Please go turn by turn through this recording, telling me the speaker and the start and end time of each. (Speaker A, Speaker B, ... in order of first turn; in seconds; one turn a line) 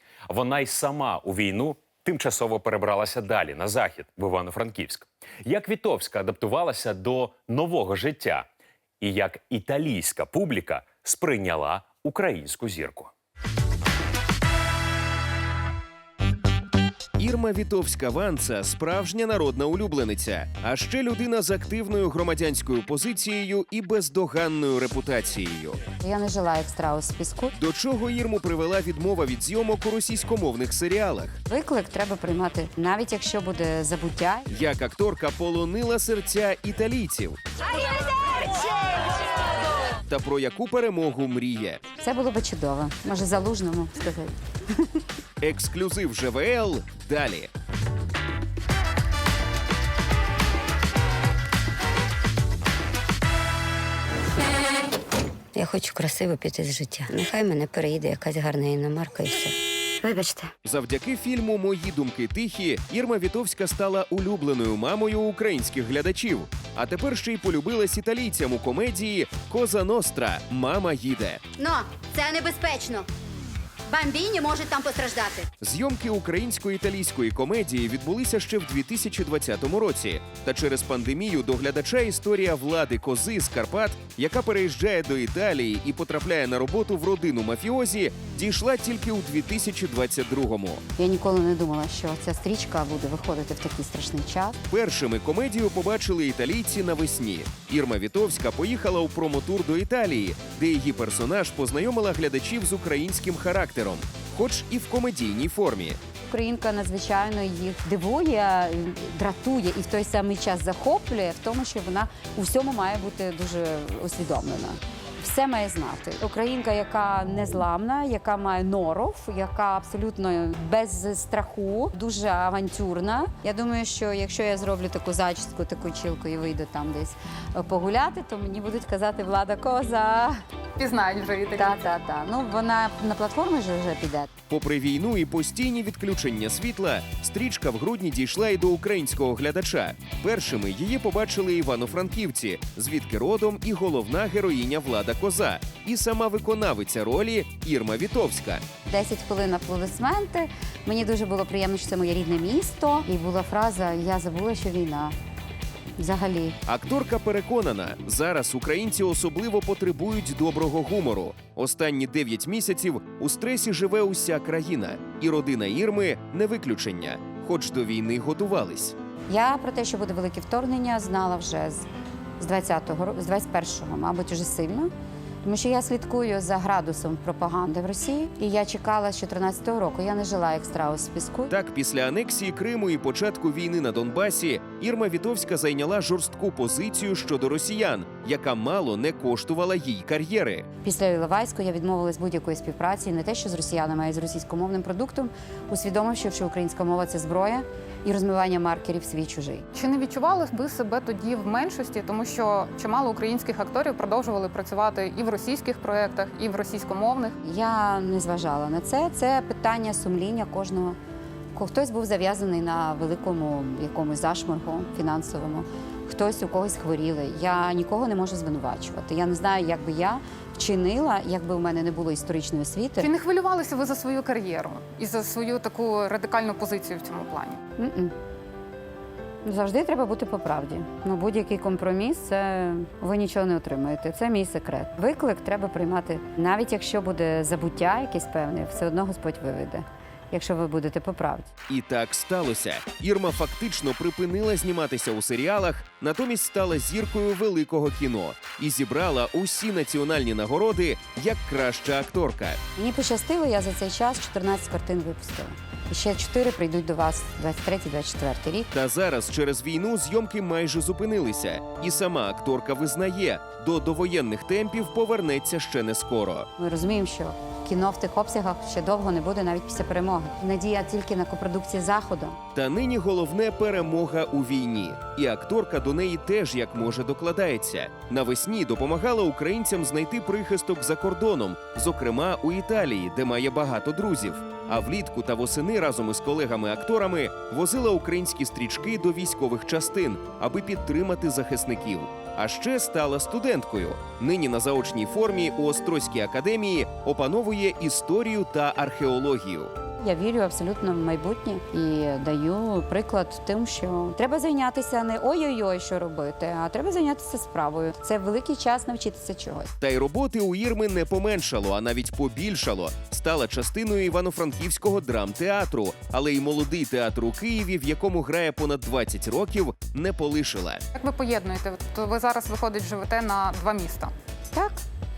Speaker A: 0.3-8.4
Speaker A: 9.0-13.1
Speaker B: 17.2-25.8
Speaker C: 26.0-27.6
Speaker B: 27.6-31.4
Speaker C: 31.5-34.5
Speaker B: 34.5-37.4
Speaker B: 40.1-41.8
Speaker C: 42.0-44.4
Speaker B: 45.4-47.5
Speaker D: 55.5-59.5
Speaker B: 60.6-71.4
Speaker E: 71.6-73.1
Speaker E: 73.9-75.5
Speaker B: 75.6-90.8
Speaker C: 91.0-94.6
Speaker B: 94.7-106.0
Speaker C: 106.2-130.4
Speaker F: 130.8-131.7
Speaker C: 131.5-134.3
Speaker B: 134.5-148.6
Speaker C: 148.8-155.1
Speaker C: 156.0-156.6
Speaker B: 156.7-168.9
Speaker C: 169.3-171.9
Speaker C: 172.4-174.9
Speaker C: 175.4-181.5
Speaker B: 181.5-190.7
Speaker C: 190.8-199.7
Speaker F: 199.7-207.3
Speaker C: 207.4-211.0
Speaker C: 211.5-223.1
Speaker F: 223.0-227.6
Speaker C: 227.8-228.1
Speaker C: 229.4-241.5
Speaker B: 241.7-252.6
Speaker C: 252.8-258.7
Speaker B: 258.7-266.5
Speaker C: 266.6-272.4
Speaker B: 272.5-299.7
Speaker C: 300.0-309.7
Speaker B: 309.8-320.8
Speaker F: 320.9-324.1
Speaker C: 324.5-324.8